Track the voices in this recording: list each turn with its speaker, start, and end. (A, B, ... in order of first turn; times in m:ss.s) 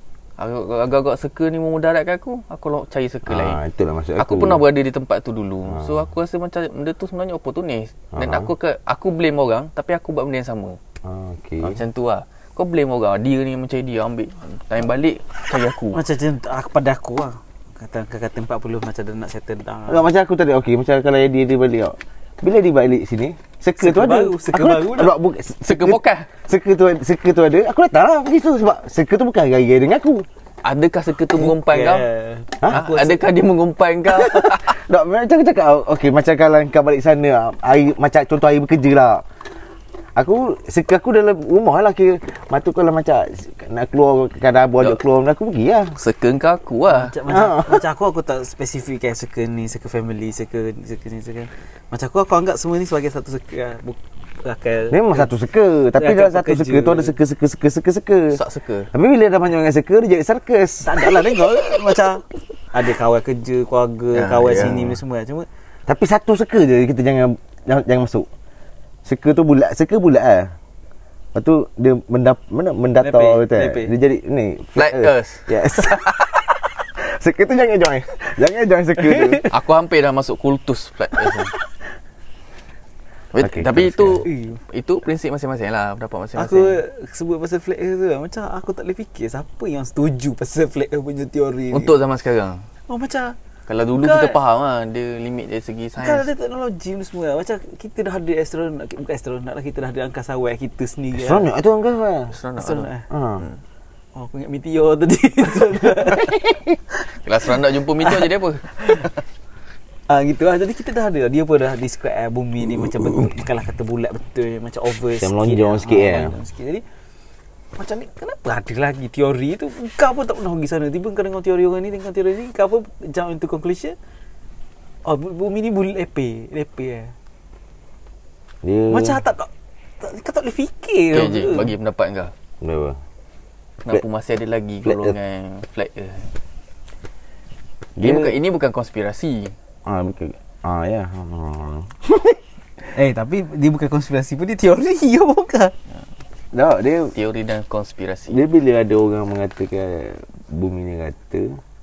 0:00.4-0:03.6 A
0:03.2-0:04.6 B
0:04.2-0:10.8 A
0:05.7-0:06.1 B
0:08.1-0:08.5 B
0:11.0-0:11.8 B
0:11.6-0:16.0 A
0:15.9-0:20.1 C
0:19.9-0:30.2 B
0:23.8-0:25.1 C
0:25.6-0:26.3 A
0:30.6-0:32.0 A
0:31.3-0:33.2 C
0:32.7-0:34.8 A
0:34.1-0:39.2 B
0:40.2-0:45.9 B
0:46.0-0:47.1 A
0:46.9-0:55.3 C
0:47.3-0:47.8 B
0:54.9-0:58.4 B
0:55.9-0:57.2 C
0:58.3-0:58.9 A
0:58.9-1:01.7 B
1:00.8-1:05.5 C
1:04.1-1:04.9 A
1:04.6-1:04.9 B
1:05.9-1:08.3 B
1:09.0-1:10.5 B
1:11.3-1:19.4 B
1:13.0-1:13.9 C
1:14.8-1:16.3 A
1:19.0-1:19.5 C
1:19.5-1:21.5 A
1:23.3-1:26.8 A
1:23.4-1:24.2 B
1:24.2-1:24.6 C
1:26.4-1:32.0 C
1:31.7-1:32.7 A
1:32.9-1:33.4 C
1:33.7-1:36.3 A
1:34.0-1:34.4 C
1:36.0-1:41.5 C
1:41.1-1:42.3 B
1:42.3-1:43.6 A
1:42.6-1:43.0 C
1:43.1-1:43.4 B
1:44.2-1:46.4 C
1:46.2-1:46.8 B
1:47.2-1:48.7 A
1:48.0-1:49.1 C
1:50.1-1:56.8 C
1:55.2-1:56.3 B
1:57.8-2:04.0 C
2:05.0-2:07.1 C
2:08.6-2:09.2 B
2:08.9-2:09.5 C
2:10.0-2:11.7 C
2:11.1-2:12.3 A
2:12.6-2:13.0 B
2:13.8-2:16.3 A
2:14.8-2:15.1 B
2:18.0-2:18.4 B
2:18.0-2:19.5 A
2:19.8-2:22.4 B
2:22.9-2:25.7 C
2:26.5-2:27.1 B
2:27.1-2:28.4 A
2:28.3-2:31.6 B